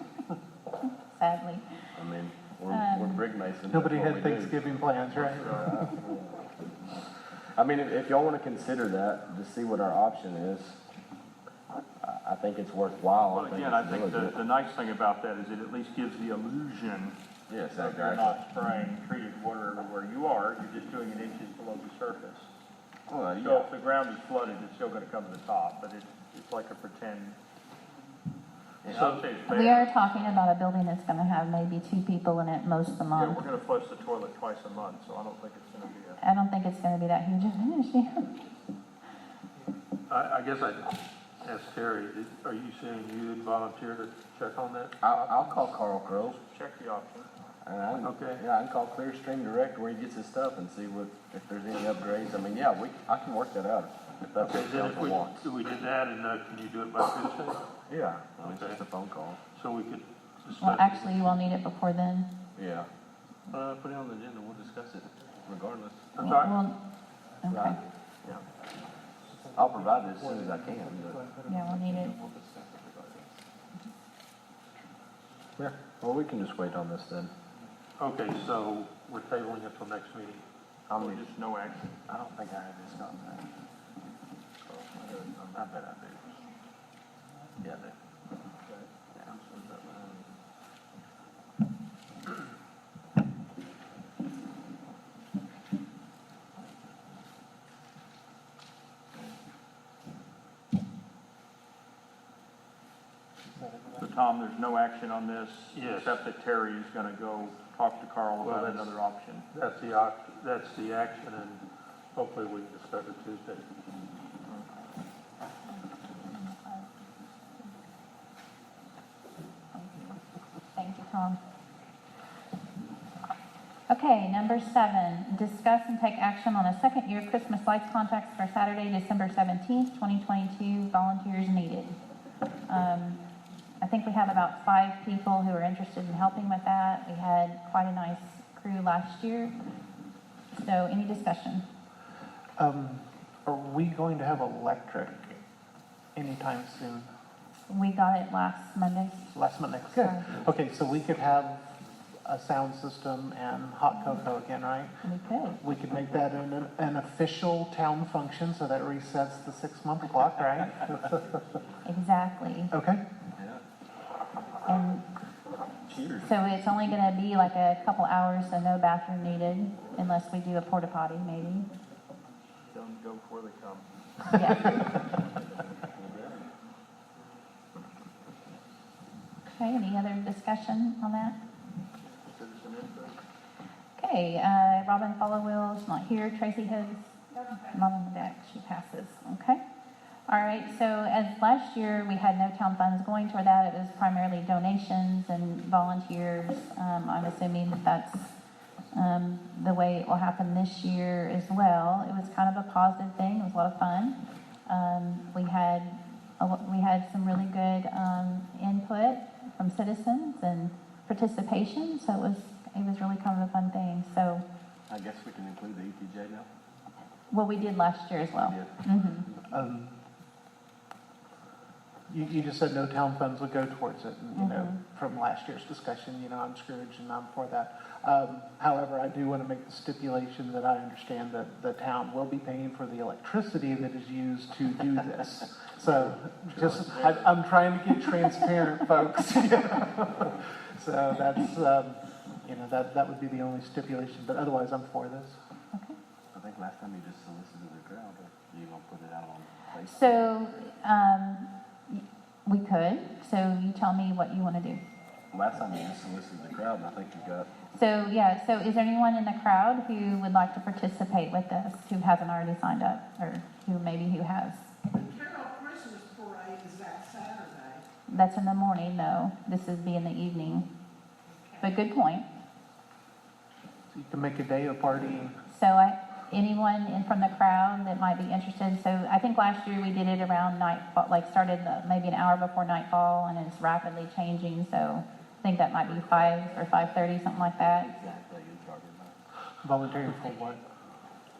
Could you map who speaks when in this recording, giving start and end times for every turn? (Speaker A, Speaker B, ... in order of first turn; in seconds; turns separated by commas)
Speaker A: 1.1-1.7, Speaker B: 2.0-4.6, Speaker A: 2.7-3.2, Speaker C: 3.7-6.0, Speaker B: 5.4-6.3, Speaker B: 7.6-10.8, Speaker B: 12.0-14.4, Speaker D: 13.3-17.2, Speaker B: 17.5-18.4, Speaker D: 17.8-22.5, Speaker B: 23.1-23.7, Speaker D: 23.4-27.4, Speaker B: 28.8-29.1, Speaker E: 28.9-29.2, Speaker D: 28.9-30.4, Speaker A: 29.5-33.4, Speaker D: 33.1-36.2, Speaker A: 36.2-38.3, Speaker E: 40.1-45.0, Speaker B: 45.0-46.4, Speaker D: 46.4-47.3, Speaker B: 47.6-55.5, Speaker E: 48.0-48.4, Speaker E: 54.4-57.7, Speaker B: 57.9-59.4, Speaker E: 58.4-58.8, Speaker E: 59.5-61.6, Speaker A: 60.6-62.3, Speaker B: 62.6-62.9, Speaker B: 63.5-66.2, Speaker A: 66.2-66.8, Speaker E: 66.2-66.6, Speaker A: 67.4-67.8, Speaker B: 67.5-68.4, Speaker C: 69.3-73.4, Speaker B: 69.5-71.2, Speaker A: 71.5-72.2, Speaker B: 75.6-77.3, Speaker E: 78.0-80.5, Speaker B: 80.9-81.3, Speaker D: 81.0-82.0, Speaker B: 82.1-83.5, Speaker D: 84.6-85.6, Speaker B: 85.5-86.4, Speaker B: 87.6-88.0, Speaker D: 88.6-90.3, Speaker C: 103.4-104.1, Speaker D: 104.0-109.5, Speaker E: 105.7-106.2, Speaker E: 108.4-108.9, Speaker E: 109.5-113.7, Speaker A: 115.7-117.8, Speaker A: 119.7-120.2, Speaker A: 120.8-121.4, Speaker A: 123.9-132.0, Speaker A: 132.7-133.2, Speaker A: 133.8-139.6, Speaker A: 140.5-141.7, Speaker C: 142.6-145.4, Speaker C: 146.2-147.1, Speaker A: 147.7-149.3, Speaker C: 149.3-155.0, Speaker A: 149.9-150.4, Speaker A: 155.0-155.6, Speaker C: 155.6-161.4, Speaker A: 161.8-162.7, Speaker C: 162.7-163.0, Speaker B: 163.4-163.6, Speaker A: 164.7-165.1, Speaker B: 165.9-166.3, Speaker A: 166.2-171.7, Speaker D: 172.7-173.9, Speaker A: 174.3-174.7, Speaker D: 174.6-174.9, Speaker B: 175.8-176.4, Speaker A: 179.5-181.4, Speaker D: 181.9-183.2, Speaker A: 184.0-189.6, Speaker A: 190.3-198.3, Speaker A: 198.9-214.5, Speaker B: 214.9-216.5, Speaker A: 217.3-219.3, Speaker B: 218.4-219.3, Speaker C: 219.5-220.0, Speaker C: 222.1-245.4, Speaker A: 224.3-224.8, Speaker B: 236.5-237.3, Speaker A: 245.7-246.0, Speaker B: 246.3-250.4, Speaker A: 249.9-254.8, Speaker B: 255.3-257.5, Speaker A: 257.7-264.7, Speaker F: 265.4-267.5, Speaker A: 268.1-270.7, Speaker A: 271.6-272.3, Speaker C: 273.9-275.4, Speaker A: 275.5-287.9, Speaker B: 285.8-289.2, Speaker C: 289.6-290.6